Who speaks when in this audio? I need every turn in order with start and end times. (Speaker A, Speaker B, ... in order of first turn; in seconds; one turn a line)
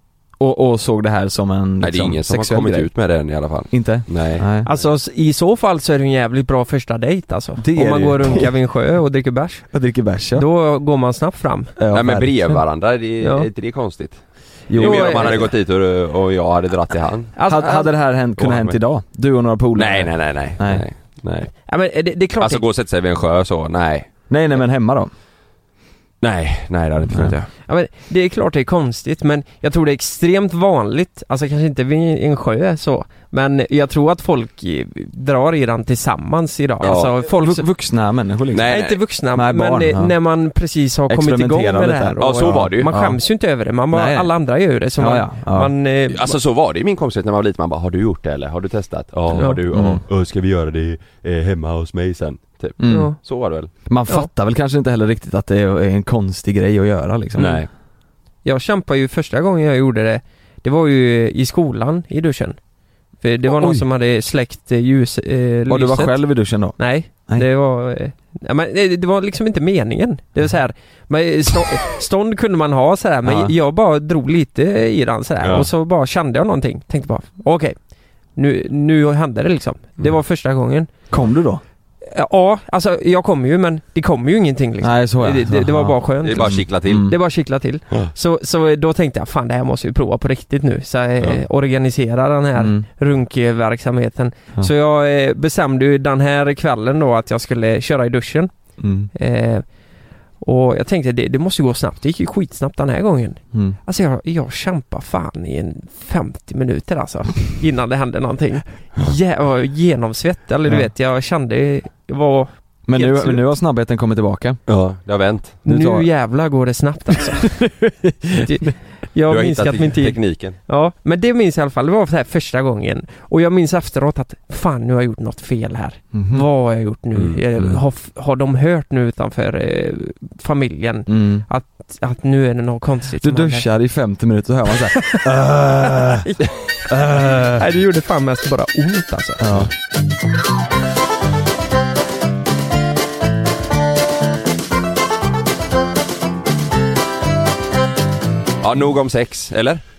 Speaker A: 0.4-2.9
Speaker B: 1.8-4.8
Speaker A: 3.7-4.7
Speaker C: 4.6-9.7
Speaker A: 7.6-8.5
Speaker A: 9.7-10.5
Speaker C: 10.3-11.7
Speaker A: 11.8-12.6
Speaker B: 11.9-17.3
Speaker C: 13.2-13.5
Speaker A: 14.7-15.5
Speaker C: 14.8-15.4
Speaker C: 17.4-17.9
Speaker A: 17.4-20.8
Speaker B: 18.4-18.8
Speaker B: 19.8-21.5
Speaker C: 21.6-22.6
Speaker B: 22.4-24.1
Speaker A: 24.3-25.1
Speaker B: 26.2-27.5
Speaker A: 27.1-27.4
Speaker C: 27.6-37.6
Speaker B: 36.8-37.1
Speaker A: 37.2-38.8
Speaker B: 38.5-39.0
Speaker C: 38.7-46.4
Speaker A: 39.3-40.1
Speaker A: 41.1-43.2
Speaker B: 42.2-42.9
Speaker A: 43.9-44.3
Speaker A: 45.0-45.7
Speaker B: 46.1-53.7
Speaker C: 49.3-49.6
Speaker A: 49.7-50.0
Speaker A: 52.8-53.1
Speaker C: 52.9-53.2
Speaker A: 53.8-57.6
Speaker B: 57.4-57.7
Speaker C: 58.4-62.6
Speaker C: 63.2-66.2
Speaker A: 63.5-63.9
Speaker A: 65.7-67.5
Speaker C: 66.7-77.8
Speaker A: 73.2-73.5
Speaker B: 75.4-75.7
Speaker C: 78.3-80.9
Speaker A: 81.1-81.6
Speaker C: 82.0-98.5
Speaker A: 84.8-87.2
Speaker B: 86.2-87.1
Speaker A: 92.5-92.8
Speaker A: 98.8-99.1
Speaker C: 99.1-99.7
Speaker C: 100.4-113.4
Speaker A: 103.5-103.8
Speaker A: 112.8-114.6
Speaker B: 114.7-115.6
Speaker A: 115.6-116.1
Speaker C: 115.6-117.6
Speaker A: 117.6-118.7
Speaker C: 118.4-133.7
Speaker B: 119.3-120.6
Speaker A: 126.1-126.5
Speaker B: 127.1-127.4
Speaker A: 131.1-131.5
Speaker A: 133.2-136.3
Speaker C: 135.0-135.2
Speaker C: 136.2-136.6
Speaker A: 136.9-137.7
Speaker C: 137.5-139.4
Speaker A: 139.4-139.7
Speaker B: 148.6-149.8